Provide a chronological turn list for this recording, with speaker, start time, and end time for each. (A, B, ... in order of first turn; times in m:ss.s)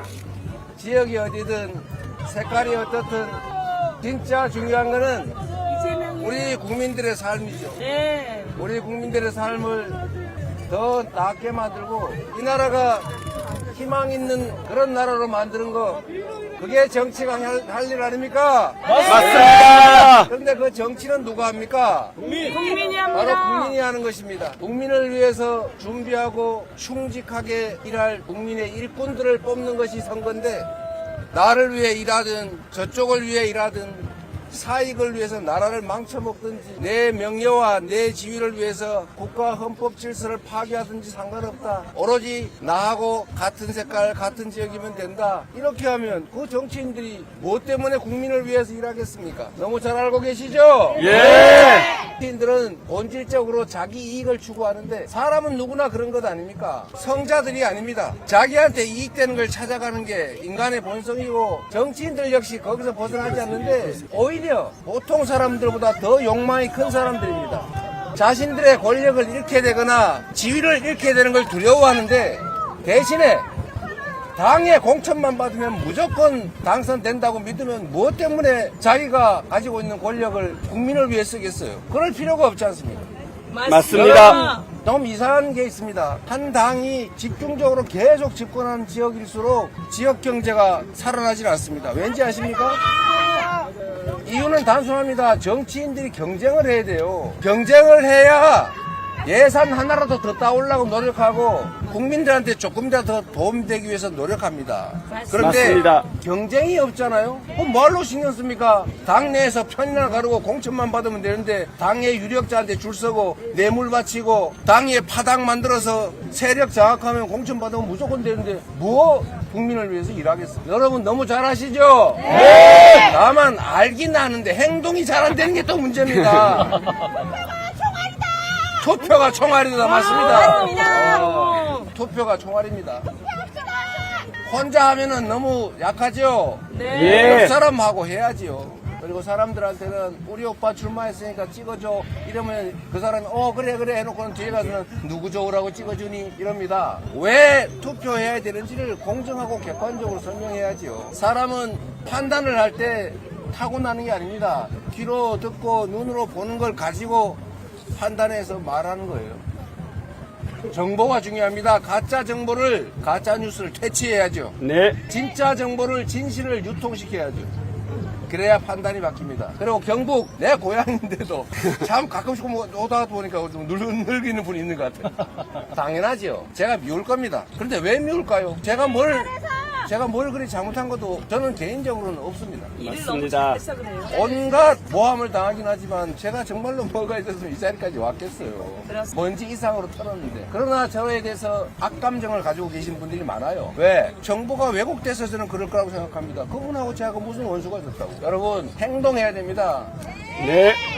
0:00.8-0:03.4 A
0:04.0-0:05.4 A
0:06.1-0:07.9 A
0:08.0-0:08.5 B
0:08.5-0:10.0 A
0:10.7-0:13.1 A
0:13.7-0:16.0 A
0:16.6-0:22.2 A
0:19.0-0:20.3 C
0:22.5-0:23.1 B
0:23.0-0:30.7 A
0:31.3-1:13.4 A
0:51.0-0:51.8 C
1:14.3-1:23.0 A
1:23.5-1:24.6 B
1:23.6-1:24.4 C
1:23.9-1:32.8 A
1:34.2-2:06.8 A
1:45.3-1:46.0 C
2:08.8-2:13.1 A
2:10.1-2:11.8 B
2:14.4-2:37.4 A
2:16.7-2:17.2 B
2:16.9-2:17.5 C
2:37.9-2:39.4 A
2:40.7-2:44.6 A
2:44.6-2:45.0 C
2:45.1-2:47.5 A
2:48.3-2:59.3 A
2:59.8-3:02.8 A
3:02.8-3:04.1 B
3:02.8-3:03.6 C
3:04.1-3:19.9 A
3:20.4-3:20.8 C